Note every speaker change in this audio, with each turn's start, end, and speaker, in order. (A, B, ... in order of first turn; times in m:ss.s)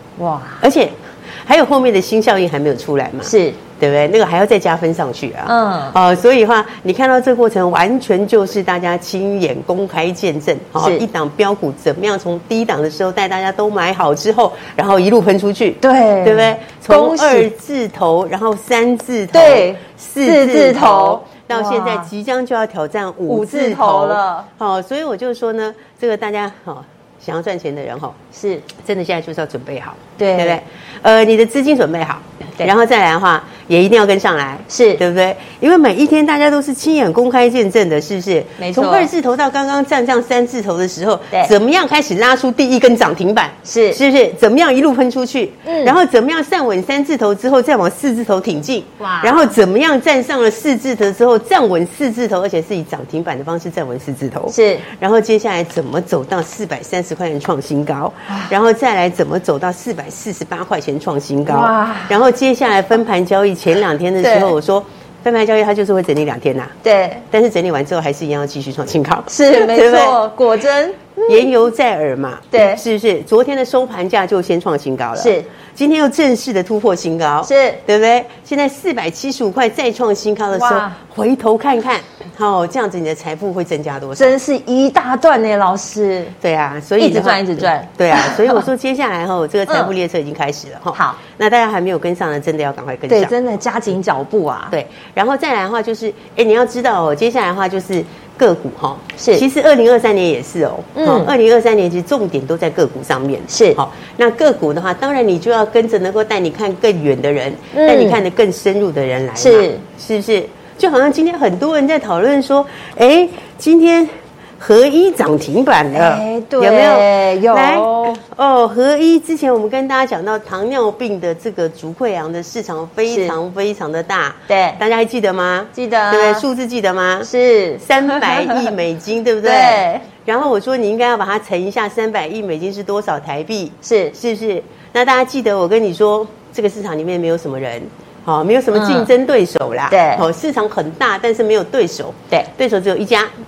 0:00.2-0:00.6 A
0:00.6-0:28.2 B
0:03.2-0:03.6 A
0:05.5-0:06.0 A
0:15.8-0:17.5 A
0:19.3-0:22.1 A
0:23.3-0:24.5 A
0:28.3-0:28.7 A
0:28.7-1:06.8 B
0:30.2-0:30.6 A
0:34.7-0:35.0 A
0:38.6-0:39.1 A
0:43.6-0:44.0 A
0:45.7-0:46.0 A
0:49.0-0:49.5 A
0:54.5-0:54.8 A
1:01.5-1:02.2 A
1:04.2-1:04.5 A
1:06.8-1:07.2 A
1:07.3-1:10.2 B
1:09.3-1:11.5 A
1:11.3-1:24.4 B
1:12.5-1:12.8 A
1:15.2-1:15.5 A
1:17.4-1:17.8 A
1:20.5-1:21.0 A
1:24.2-1:26.4 A
1:26.4-1:33.4 B
1:27.0-1:28.6 A
1:33.1-1:34.7 A
1:34.7-2:23.3 B
1:39.2-1:39.4 A
1:41.0-1:41.3 A
1:43.5-1:43.8 A
1:47.7-1:48.2 A
1:49.4-1:49.8 A
1:55.9-1:58.2 A
2:03.1-2:03.4 A
2:04.5-2:04.8 A
2:05.8-2:06.4 A
2:07.2-2:08.7 A
2:09.4-2:10.0 A
2:13.8-2:14.1 A
2:18.7-2:19.1 A
2:19.9-2:20.3 A